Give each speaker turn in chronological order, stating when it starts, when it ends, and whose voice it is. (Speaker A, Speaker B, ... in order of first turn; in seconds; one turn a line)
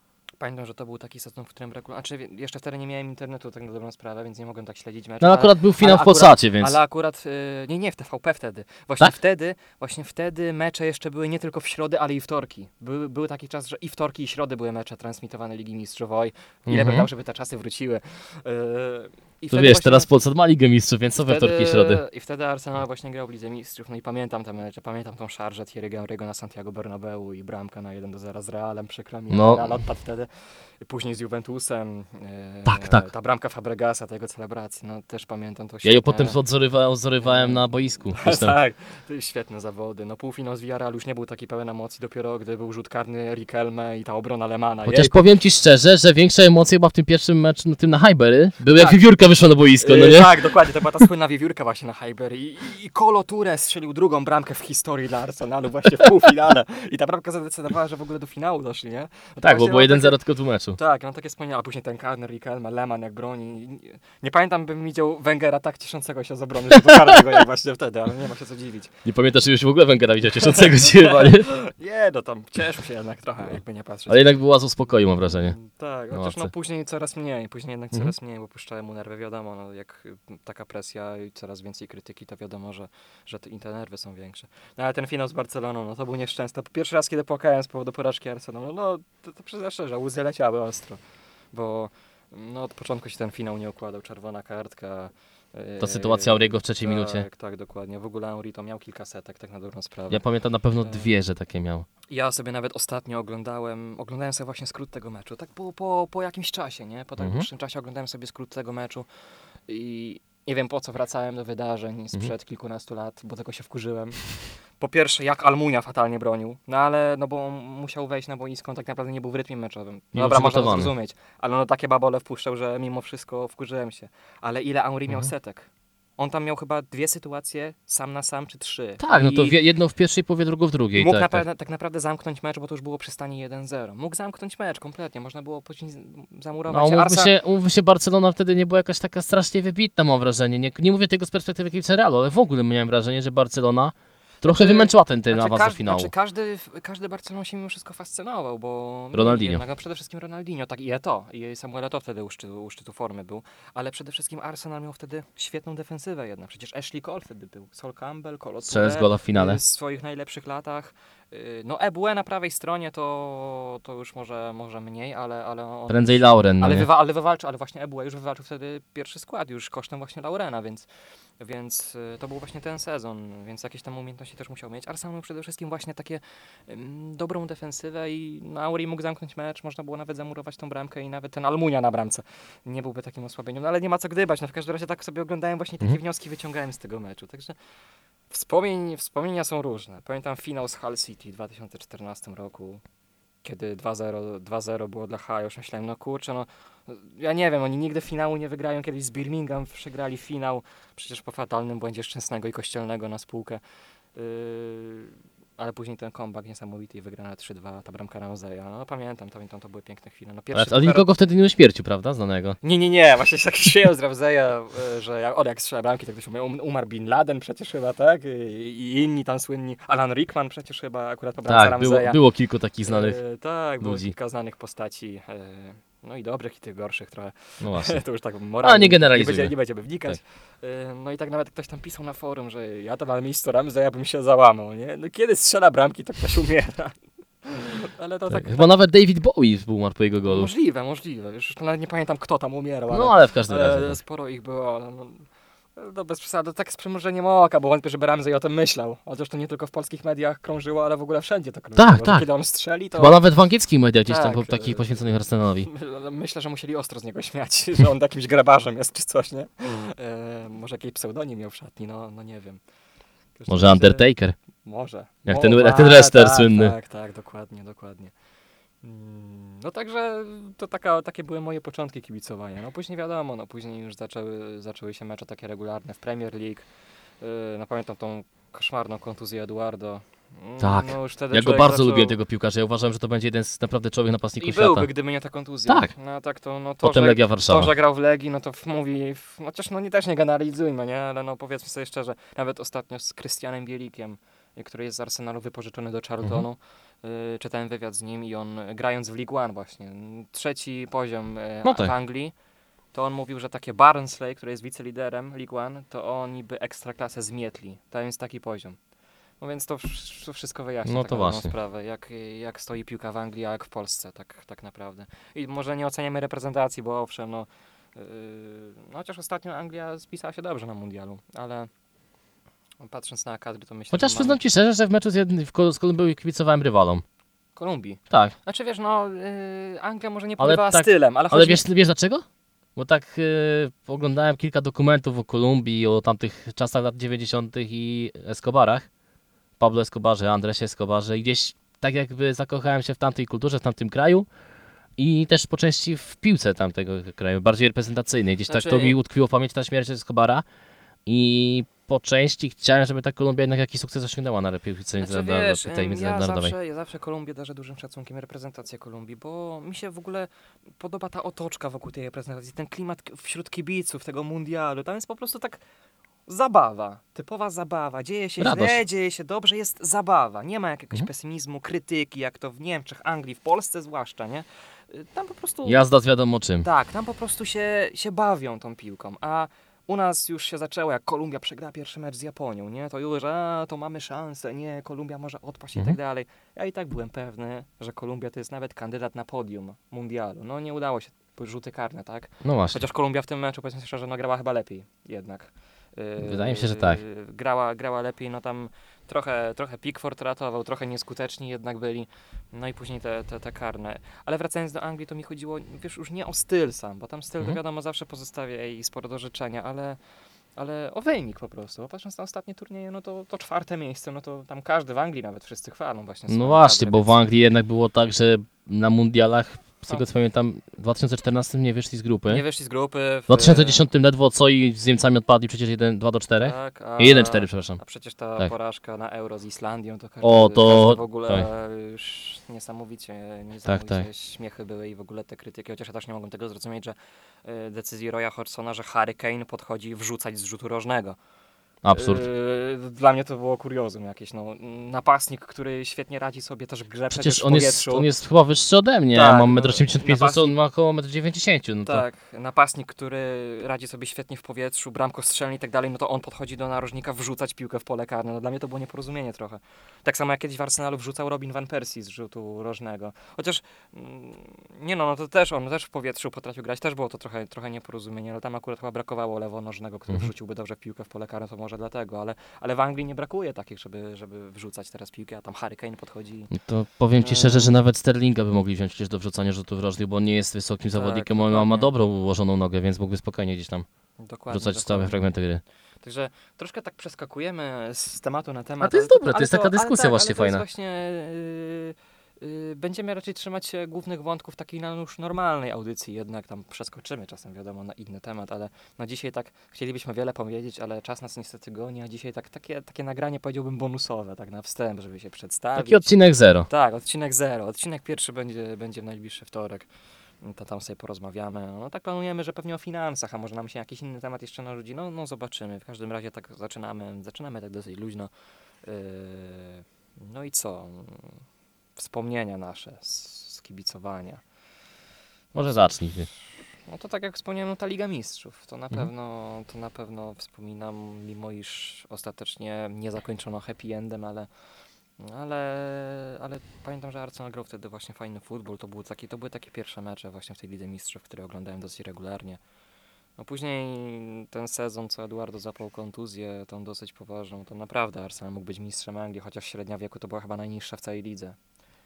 Speaker A: 0.4-20.1
Speaker B: 5.2-6.8
Speaker B: 16.7-17.1
Speaker B: 19.5-22.0
Speaker A: 21.2-36.4
Speaker B: 29.3-29.6
Speaker B: 32.7-33.0
Speaker B: 35.8-38.6
Speaker A: 37.2-45.2
Speaker B: 44.9-50.3
Speaker A: 49.8-60.2
Speaker B: 59.4-60.8
Speaker A: 60.7-69.0
Speaker B: 69.0-71.5
Speaker A: 70.5-74.3
Speaker B: 74.1-75.5
Speaker A: 75.3-91.0
Speaker B: 76.1-76.5
Speaker A: 91.5-100.2
Speaker B: 95.8-97.2
Speaker B: 100.1-101.9
Speaker A: 100.8-101.1
Speaker A: 102.1-109.1
Speaker B: 107.2-107.5
Speaker A: 109.7-129.6
Speaker B: 120.1-120.9
Speaker B: 129.0-131.4
Speaker A: 130.9-137.3
Speaker B: 136.7-146.1
Speaker A: 144.4-170.8
Speaker B: 149.1-149.6
Speaker B: 158.7-159.6
Speaker B: 165.9-166.8
Speaker A: 171.4-187.6
Speaker A: 188.3-192.8
Speaker A: 193.4-203.6
Speaker A: 204.1-211.1
Speaker B: 210.5-212.6
Speaker A: 212.6-222.2
Speaker B: 221.5-223.2
Speaker A: 222.8-238.7
Speaker B: 223.8-224.1
Speaker B: 227.6-228.0
Speaker B: 228.6-229.5
Speaker B: 238.3-240.5
Speaker A: 240.2-253.2
Speaker B: 242.9-244.0
Speaker B: 251.8-252.3
Speaker B: 253.0-255.7
Speaker A: 254.1-255.1
Speaker A: 255.6-262.6
Speaker A: 263.4-264.1
Speaker B: 263.5-264.4
Speaker A: 264.6-268.1
Speaker B: 265.2-266.7
Speaker A: 268.8-276.7
Speaker A: 277.2-282.2
Speaker B: 280.6-284.9
Speaker A: 284.4-302.3
Speaker B: 285.7-285.9
Speaker B: 286.8-287.7
Speaker B: 301.6-301.9
Speaker A: 302.9-308.8
Speaker A: 309.4-321.7
Speaker B: 310.8-311.5
Speaker A: 322.8-324.4
Speaker B: 323.9-327.0
Speaker A: 327.6-331.6
Speaker B: 330.4-332.2
Speaker B: 332.8-338.9
Speaker B: 339.6-344.3
Speaker B: 345.0-350.4
Speaker A: 348.5-349.0
Speaker B: 351.1-356.5
Speaker A: 355.0-365.6
Speaker A: 366.3-375.8
Speaker B: 368.4-368.8
Speaker B: 375.6-376.6
Speaker A: 376.6-410.0
Speaker B: 392.4-392.8
Speaker B: 396.2-397.0
Speaker A: 410.6-417.2
Speaker B: 416.3-422.4
Speaker A: 422.3-423.8
Speaker B: 423.3-427.8
Speaker A: 426.4-441.2
Speaker B: 430.2-431.5
Speaker B: 433.6-434.1
Speaker B: 441.8-442.2
Speaker A: 441.9-448.1
Speaker B: 447.1-452.0
Speaker A: 449.1-450.5
Speaker A: 451.8-476.5
Speaker B: 476.5-483.9
Speaker A: 477.2-477.8
Speaker A: 480.9-481.9
Speaker A: 484.2-485.3
Speaker B: 484.5-485.6
Speaker A: 486.0-509.9
Speaker B: 488.8-490.6
Speaker B: 505.8-506.7
Speaker A: 510.4-518.3
Speaker A: 518.8-521.3
Speaker A: 522.0-524.4
Speaker B: 525.5-526.3
Speaker A: 525.6-526.0
Speaker A: 526.9-534.5
Speaker A: 535.2-542.6
Speaker A: 543.4-551.6